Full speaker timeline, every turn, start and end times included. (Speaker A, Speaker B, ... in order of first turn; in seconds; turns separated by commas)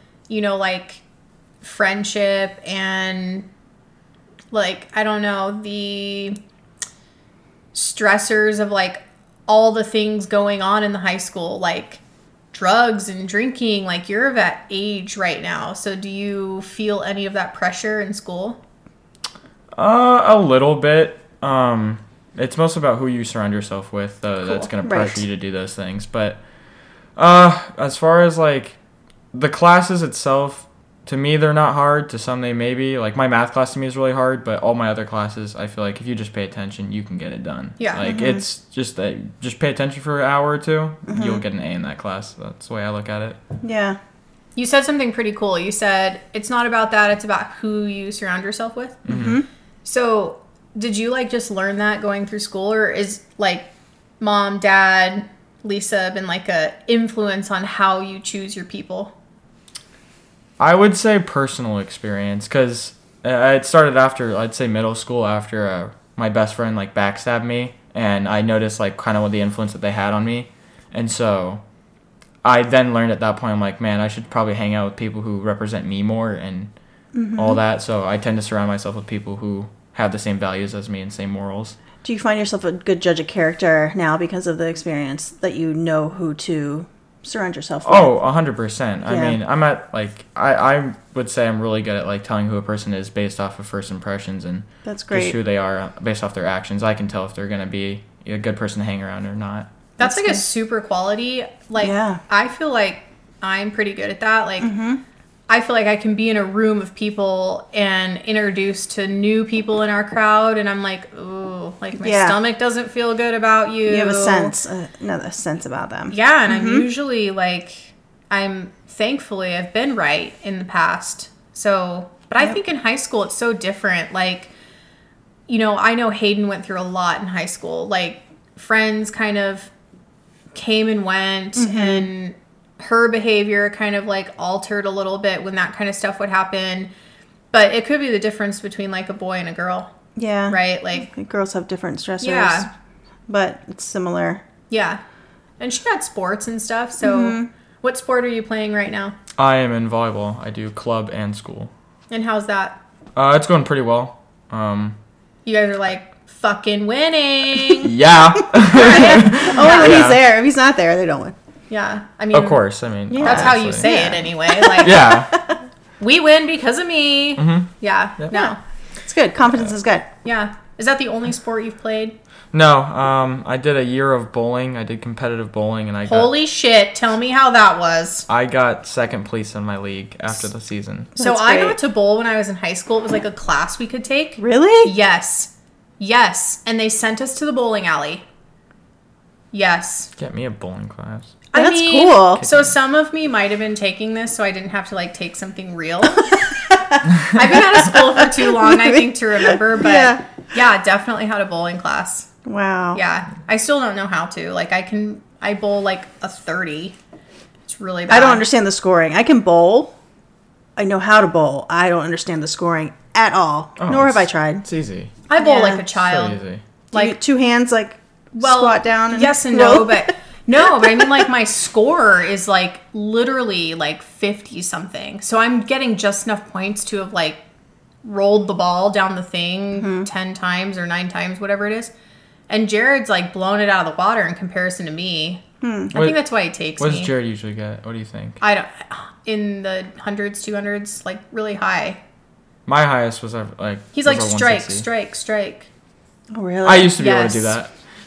Speaker A: 0.3-1.0, Speaker A: 1.6-3.5, Speaker A: 4.5-6.4, Speaker A: 7.7-12.0, Speaker A: 12.5-18.6, Speaker B: 19.8-26.4, Speaker A: 24.4-24.7, Speaker C: 24.8-25.2, Speaker B: 27.2-28.8, Speaker B: 29.3-43.4, Speaker A: 37.8-38.1, Speaker C: 38.0-38.4, Speaker C: 41.1-41.4, Speaker C: 43.6-44.0, Speaker A: 44.5-49.0, Speaker B: 49.1-49.4, Speaker C: 49.1-49.5, Speaker A: 49.9-53.7, Speaker A: 54.2-59.1, Speaker B: 60.6-71.6, Speaker B: 72.4-76.7, Speaker C: 77.1-77.6, Speaker B: 77.4-81.8, Speaker C: 82.0-88.1, Speaker B: 87.8-99.7, Speaker C: 89.1-89.4, Speaker C: 94.8-95.4, Speaker A: 100.0-104.7, Speaker C: 100.0-100.4, Speaker C: 101.8-102.2, Speaker C: 104.6-105.0, Speaker A: 105.5-114.5, Speaker C: 112.0-112.4, Speaker C: 113.9-116.9, Speaker A: 116.1-124.5, Speaker A: 125.5-129.7, Speaker A: 130.5-136.9, Speaker C: 131.6-132.1, Speaker A: 137.5-139.9, Speaker C: 140.2-142.7, Speaker A: 140.5-141.1, Speaker A: 142.2-142.7, Speaker C: 143.3-144.4, Speaker A: 144.7-145.0, Speaker A: 145.6-149.2, Speaker C: 147.0-147.5, Speaker B: 149.4-151.7, Speaker A: 152.1-152.8, Speaker B: 153.2-155.0, Speaker A: 155.4-157.9, Speaker B: 157.8-160.2, Speaker C: 158.6-161.3, Speaker A: 158.7-160.1, Speaker A: 161.7-162.6, Speaker B: 162.3-163.9, Speaker C: 163.1-165.3, Speaker A: 163.2-165.2, Speaker B: 164.8-165.4, Speaker A: 166.0-168.6, Speaker B: 167.4-168.3, Speaker C: 168.3-170.1, Speaker A: 170.2-172.2, Speaker B: 172.5-176.3, Speaker A: 176.1-178.2, Speaker B: 178.3-181.1, Speaker C: 181.2-181.8, Speaker A: 181.2-188.2, Speaker C: 184.4-184.9, Speaker A: 189.5-190.1, Speaker B: 190.2-191.4, Speaker A: 191.5-196.5, Speaker C: 191.6-192.4, Speaker B: 192.4-192.7, Speaker A: 197.3-202.3, Speaker C: 197.7-200.3, Speaker C: 202.4-203.0, Speaker A: 202.9-207.0, Speaker A: 207.7-208.4, Speaker C: 208.1-209.9, Speaker C: 210.8-214.6, Speaker B: 213.8-215.3, Speaker A: 215.3-216.4, Speaker C: 215.4-215.9, Speaker B: 215.9-216.6, Speaker A: 216.9-217.2, Speaker C: 216.9-220.1, Speaker A: 218.4-227.4, Speaker A: 228.0-231.9, Speaker C: 229.8-230.1, Speaker A: 232.5-237.1, Speaker C: 235.6-235.9, Speaker B: 235.9-238.4, Speaker A: 238.4-242.0, Speaker B: 242.7-244.9, Speaker A: 243.9-245.7, Speaker C: 246.3-247.0, Speaker B: 246.6-247.7, Speaker A: 246.9-247.5